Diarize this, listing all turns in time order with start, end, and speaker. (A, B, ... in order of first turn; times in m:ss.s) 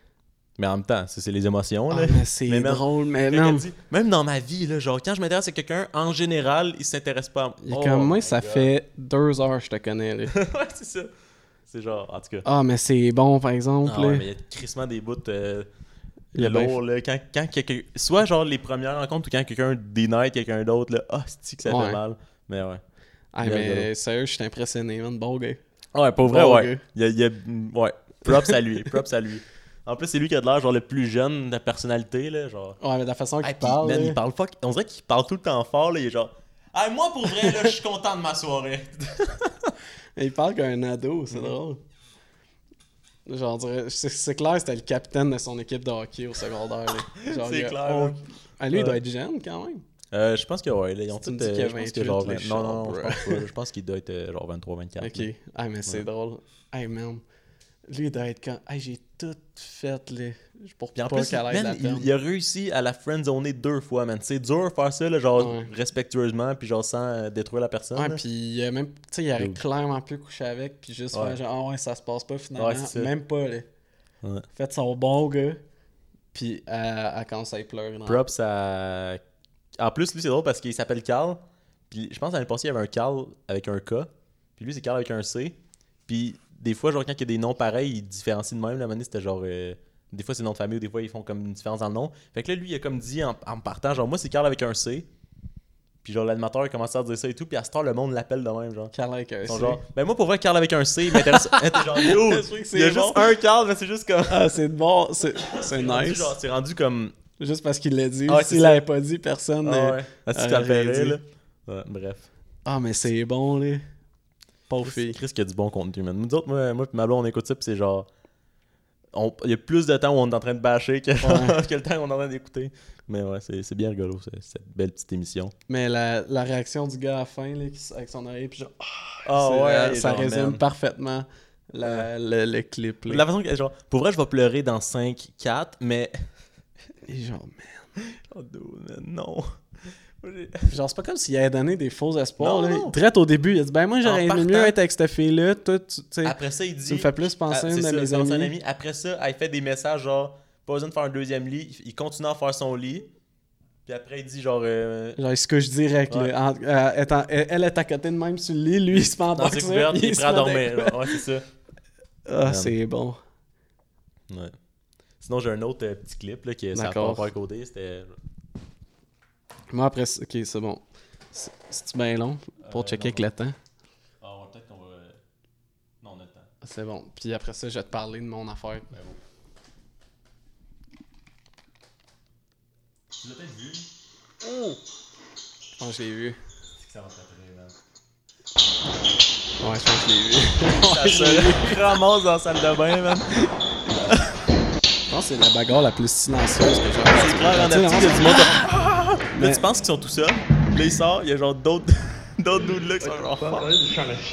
0:00.6-0:08.7 A
0:01.9-0:03.7 B
0:07.6-0:10.3 B
0:10.3-0:11.1 A
0:11.7-0:12.5 A
0:12.4-0:14.2 B
0:13.8-0:15.7 A
0:16.3-0:16.8 B
0:16.3-0:22.8 A
0:21.6-0:22.0 B
0:23.3-0:25.6 B
0:23.4-0:23.9 A
0:25.9-0:32.8 A
0:26.2-0:26.8 B
0:28.3-0:28.5 B
0:32.8-0:34.2 B
0:33.4-0:39.7 A
0:37.3-0:37.7 B
0:40.2-0:41.8 B
0:43.2-0:49.8 B
0:47.2-0:49.0 A
0:50.1-0:55.3 A
0:51.1-0:53.4 B
0:55.0-0:57.2 B
0:57.9-1:02.1 B
1:01.0-1:08.2 A
1:05.4-1:05.7 B
1:07.9-1:13.7 B
1:11.1-1:11.4 A
1:12.6-1:13.1 A
1:14.5-1:15.6 B
1:16.3-1:18.2 B
1:18.0-1:19.2 A
1:19.8-1:25.6 A
1:26.1-1:35.1 A
1:36.0-1:38.9 A
1:38.9-1:39.8 B
1:39.4-1:44.6 A
1:41.1-1:43.3 B
1:44.3-1:46.4 B
1:45.5-1:47.1 A
1:47.4-1:51.2 B
1:48.3-1:48.8 A
1:49.6-1:52.3 A
1:52.6-1:53.8 B
1:54.7-1:55.2 B
1:54.8-1:58.1 A
1:59.1-2:05.5 A
2:01.2-2:01.6 B
2:05.7-2:13.2 B
2:09.2-2:10.6 A
2:11.8-2:12.1 A
2:13.1-2:16.1 A
2:17.0-2:17.9 B
2:18.0-2:19.5 A
2:20.2-2:20.7 A
2:20.7-2:28.5 B
2:22.4-2:23.0 A
2:24.0-2:24.8 A
2:26.2-2:33.1 A
2:33.8-2:35.2 A
2:35.2-2:41.2 B
2:39.3-2:41.4 A
2:42.2-2:43.2 B
2:42.4-2:42.7 A
2:44.3-2:44.5 A
2:45.2-2:48.1 A
2:46.7-2:47.3 B
2:49.7-2:53.6 B
2:52.6-2:53.3 A
2:54.2-2:55.2 A
2:56.0-2:56.5 A
2:56.6-2:58.9 B
2:58.9-2:59.2 A
3:03.2-3:03.9 A
3:04.4-3:04.7 B
3:05.8-3:06.4 B
3:06.8-3:07.7 A
3:09.6-3:12.0 B
3:10.8-3:14.3 A
3:15.1-3:18.7 B
3:17.1-3:23.7 A
3:19.3-3:19.6 B